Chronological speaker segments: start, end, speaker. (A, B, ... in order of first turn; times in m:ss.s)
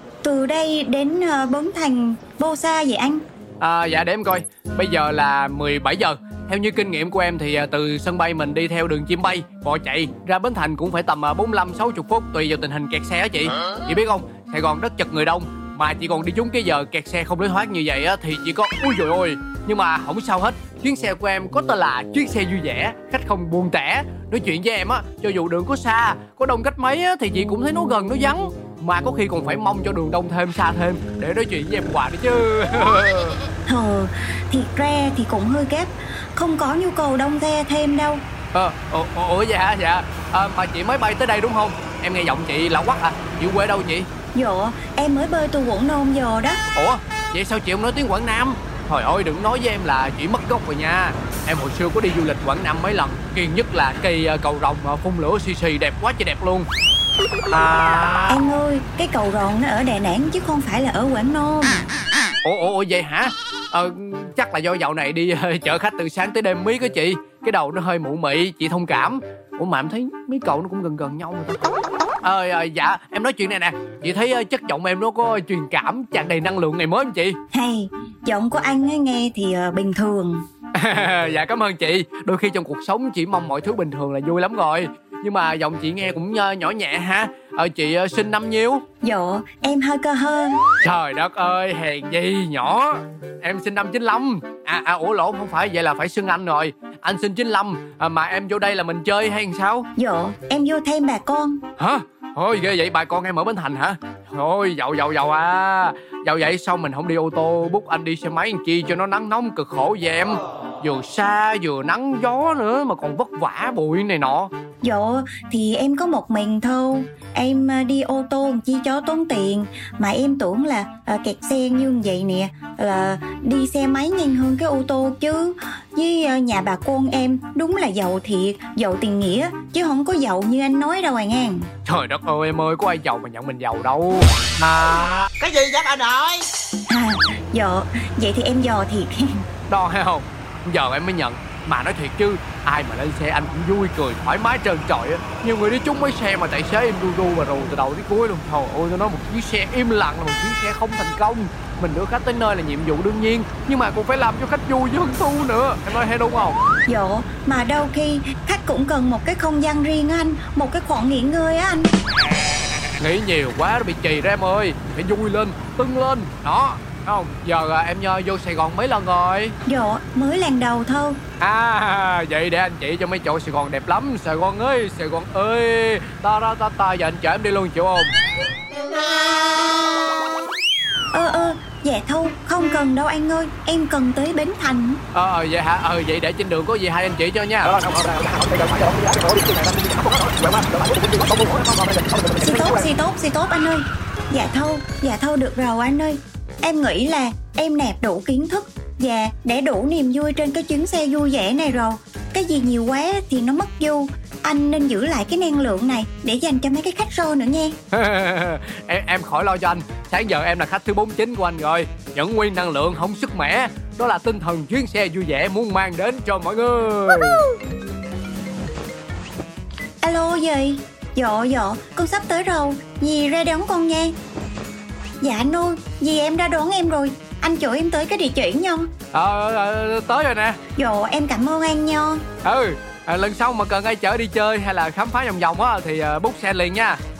0:00.2-0:03.2 A
0:03.6-0:33.4 B
0:33.7-0:38.2 A
0:38.5-0:44.1 B
0:44.3-0:46.6 A
0:46.7-0:56.7 B
0:57.5-0:58.4 B
0:58.3-1:01.8 A
1:02.4-1:17.4 B
1:17.5-1:20.4 A
1:20.7-1:28.8 B
1:29.0-1:30.6 A
1:30.8-1:39.9 B
1:40.0-1:41.6 A
1:41.8-1:54.5 B
1:54.8-2:11.7 A
2:11.8-2:15.3 B
2:15.7-2:16.3 C
2:16.9-2:19.4 A
2:19.7-2:36.6 B
2:36.9-2:41.9 A
2:43.0-2:49.6 B
2:49.6-2:51.2 A
2:51.4-2:58.1 B
3:01.1-3:05.0 A
3:05.1-3:12.3 B
3:07.9-3:09.4 C
3:12.4-3:27.8 A
3:27.9-3:37.5 B
3:40.0-3:44.2 A
3:45.2-3:48.9 A
3:49.1-3:50.6 B
3:50.8-3:52.2 A
3:52.4-3:57.0 B